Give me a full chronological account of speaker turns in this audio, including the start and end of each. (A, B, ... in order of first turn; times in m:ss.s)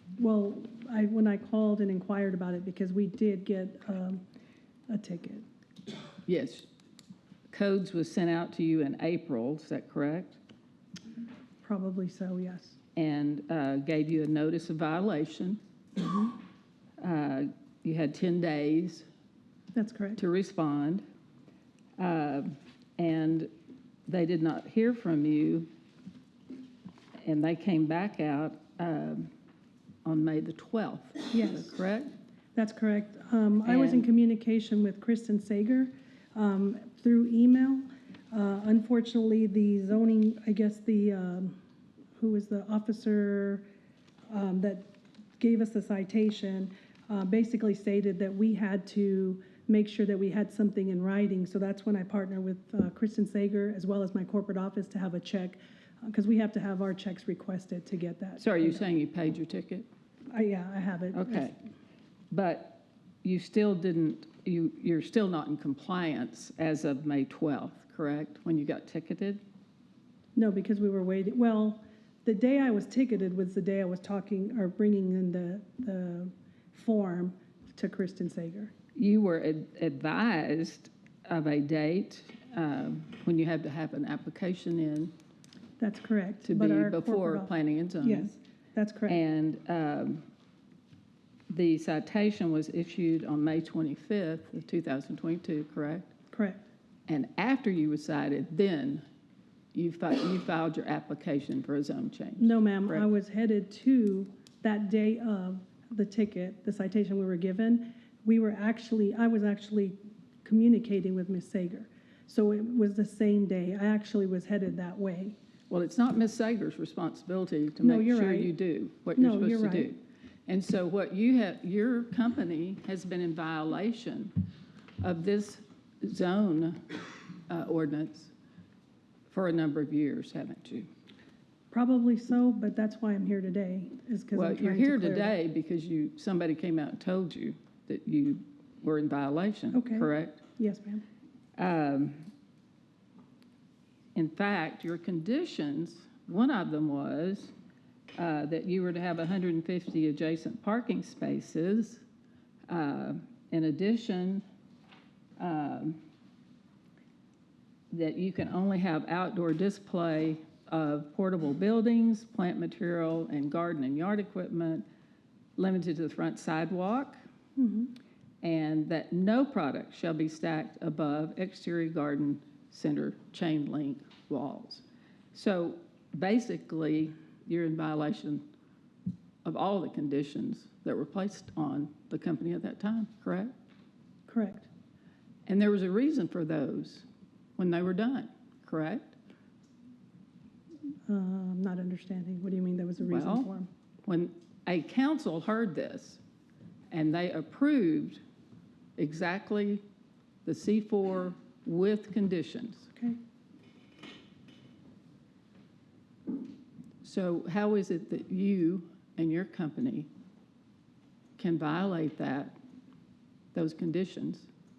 0:00.2-0:04.2 A
0:04.9-0:05.4 A
0:06.3-0:06.7 B
0:07.5-0:10.4 B
0:11.6-0:12.8 A
0:13.0-0:15.6 B
0:17.0-0:19.0 B
0:19.7-0:20.2 A
0:20.2-0:21.0 B
0:22.0-0:23.5 B
0:24.1-0:25.7 B
0:27.2-0:29.3 B
0:30.0-0:32.1 B
0:31.3-0:31.8 A
0:32.6-0:41.6 A
0:33.6-0:34.1 B
0:42.2-0:43.7 A
0:44.3-0:44.9 A
0:45.4-0:58.8 A
0:58.4-0:59.9 B
1:00.3-1:01.5 A
1:01.1-1:01.6 B
1:02.3-1:09.4 B
1:10.4-1:18.7 A
1:19.0-1:25.1 B
1:25.8-1:29.2 A
1:26.4-1:28.4 B
1:29.1-1:30.2 B
1:31.5-1:36.1 B
1:36.3-1:36.6 A
1:37.1-1:39.0 B
1:39.7-1:43.1 B
1:42.4-1:55.4 A
1:55.7-2:04.3 B
1:57.8-1:58.6 A
1:59.2-1:59.9 A
2:05.0-2:06.8 B
2:07.5-2:08.3 B
2:09.3-2:10.9 B
2:11.7-2:15.4 A
2:14.3-2:20.4 B
2:19.7-2:21.0 A
2:21.6-2:22.3 B
2:24.2-2:27.5 B
2:28.2-2:32.0 B
2:32.7-2:34.4 B
2:35.4-2:36.0 B
2:37.9-2:44.8 B
2:45.6-2:47.2 B
2:47.6-2:47.9 A
2:48.4-2:54.8 B
2:55.3-2:58.4 B
2:59.4-3:03.5 B
3:04.3-3:04.7 A
3:05.5-3:07.0 B
3:07.6-3:09.1 B
3:11.1-3:13.7 A
3:13.0-3:13.5 B
3:14.0-3:16.2 B
3:16.9-3:18.2 B
3:19.0-3:19.8 B
3:20.4-3:22.9 B
3:27.0-3:30.1 B
3:31.4-3:32.6 B
3:33.5-3:34.5 B